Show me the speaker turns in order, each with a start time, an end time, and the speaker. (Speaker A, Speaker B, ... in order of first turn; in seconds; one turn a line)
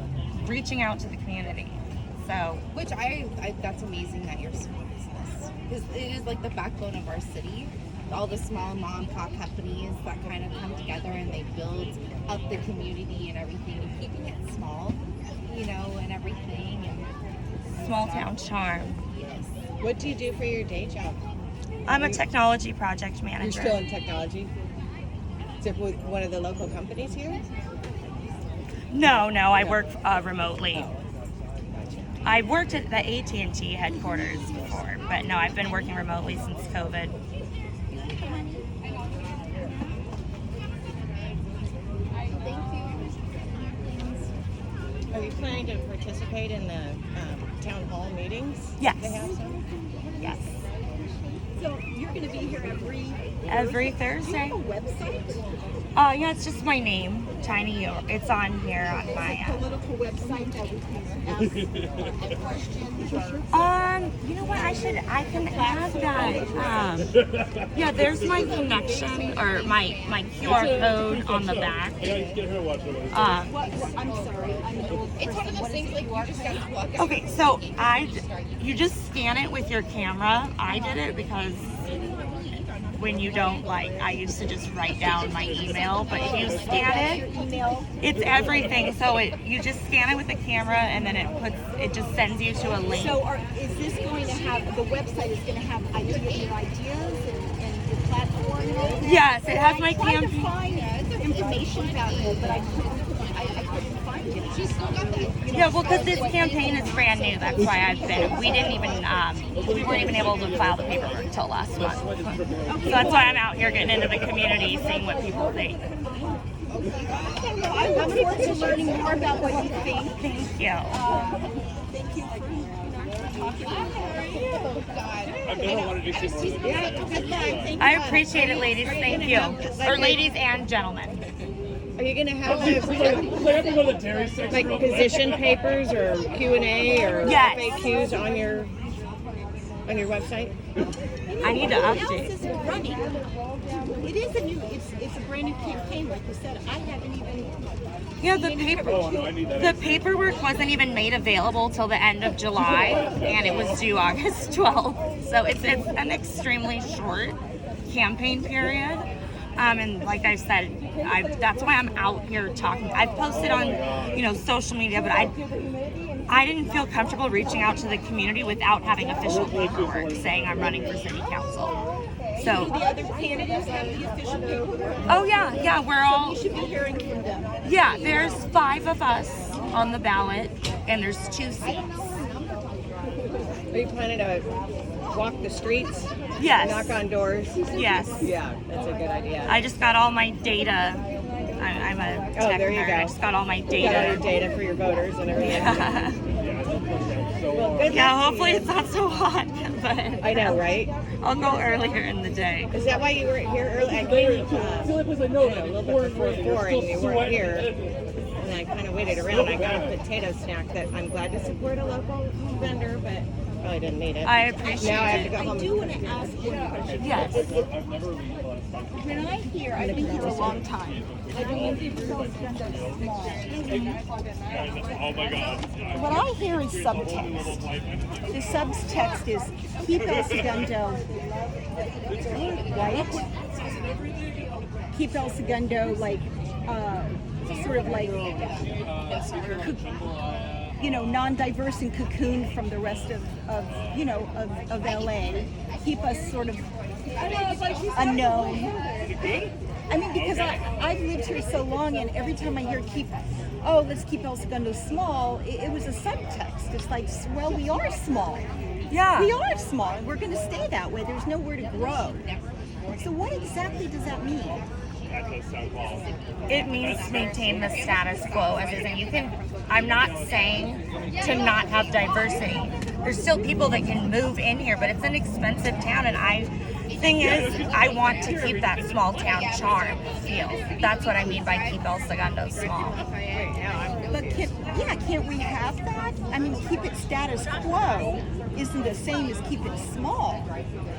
Speaker A: 0.3-2.6
Speaker B: 2.7-17.1
Speaker A: 17.7-19.0
Speaker B: 19.1-19.5
Speaker C: 19.8-21.2
Speaker C: 21.9-22.2
Speaker A: 21.9-23.9
Speaker C: 23.4-24.5
Speaker C: 25.6-27.4
Speaker A: 28.9-30.9
Speaker C: 29.5-29.8
Speaker C: 30.7-31.0
Speaker C: 31.7-32.1
Speaker A: 32.2-37.1
Speaker B: 38.0-40.0
Speaker B: 41.2-41.5
Speaker B: 42.2-44.3
Speaker C: 45.1-49.6
Speaker A: 48.8-49.2
Speaker D: 49.1-50.5
Speaker A: 50.2-50.6
Speaker D: 51.5-55.8
Speaker A: 53.5-54.6
Speaker A: 56.0-59.6
Speaker D: 59.1-63.7
Speaker A: 63.5-67.2
Speaker D: 64.3-66.9
Speaker A: 67.7-72.2
Speaker B: 68.1-71.1
Speaker A: 73.1-73.5
Speaker D: 73.4-76.7
Speaker B: 75.2-78.6
Speaker A: 77.0-81.9
Speaker B: 81.9-82.4
Speaker A: 83.0-87.2
Speaker B: 85.8-87.3
Speaker D: 86.3-87.9
Speaker A: 88.0-93.2
Speaker D: 92.9-107.0
Speaker A: 99.0-100.5
Speaker B: 100.6-103.2
Speaker B: 104.5-108.7
Speaker A: 105.5-115.9
Speaker D: 112.7-113.4
Speaker D: 116.2-116.4
Speaker B: 116.7-120.0
Speaker D: 117.2-120.3
Speaker A: 120.1-121.0
Speaker D: 120.9-125.9
Speaker B: 123.5-127.5
Speaker E: 125.6-127.3
Speaker C: 126.5-130.3
Speaker D: 127.0-129.0
Speaker A: 127.8-131.2
Speaker B: 128.3-129.6
Speaker C: 132.0-133.4
Speaker B: 133.3-133.7
Speaker E: 133.6-135.3
Speaker C: 134.4-138.9
Speaker D: 137.2-138.3
Speaker A: 137.2-137.9
Speaker C: 139.8-140.6
Speaker D: 141.3-147.6
Speaker A: 141.4-142.3
Speaker D: 148.2-149.5
Speaker A: 148.2-165.4
Speaker E: 163.8-164.1
Speaker A: 166.3-171.8
Speaker D: 172.3-177.6
Speaker A: 172.4-172.8
Speaker A: 175.1-176.4
Speaker A: 177.6-182.2
Speaker B: 181.7-183.6
Speaker C: 183.7-184.5
Speaker C: 185.1-189.6
Speaker A: 186.4-186.9
Speaker A: 187.7-188.3
Speaker A: 189.4-191.1
Speaker A: 191.6-194.4
Speaker C: 192.3-193.2
Speaker C: 193.7-196.0
Speaker A: 195.3-196.2
Speaker E: 197.1-197.6
Speaker C: 197.5-198.8
Speaker A: 197.8-202.8
Speaker C: 200.2-200.9
Speaker C: 202.7-207.8
Speaker C: 208.4-216.3
Speaker A: 214.2-215.5
Speaker D: 214.7-217.7
Speaker A: 217.0-217.5
Speaker E: 217.6-219.0
Speaker D: 219.1-223.8
Speaker E: 220.5-223.0
Speaker E: 224.7-225.9
Speaker D: 225.9-227.6
Speaker E: 227.5-228.3
Speaker D: 228.3-231.1
Speaker D: 232.3-233.3
Speaker D: 234.9-238.5
Speaker D: 239.3-240.0
Speaker D: 240.8-246.7
Speaker B: 247.1-248.3
Speaker D: 247.9-249.3
Speaker D: 249.9-258.5
Speaker A: 258.9-259.3
Speaker D: 259.1-262.3
Speaker B: 261.6-263.1
Speaker D: 262.9-264.6
Speaker B: 265.3-269.4
Speaker A: 266.5-283.0
Speaker B: 276.9-278.1
Speaker B: 279.2-282.0
Speaker B: 282.6-284.1
Speaker C: 283.3-284.5
Speaker D: 284.1-290.5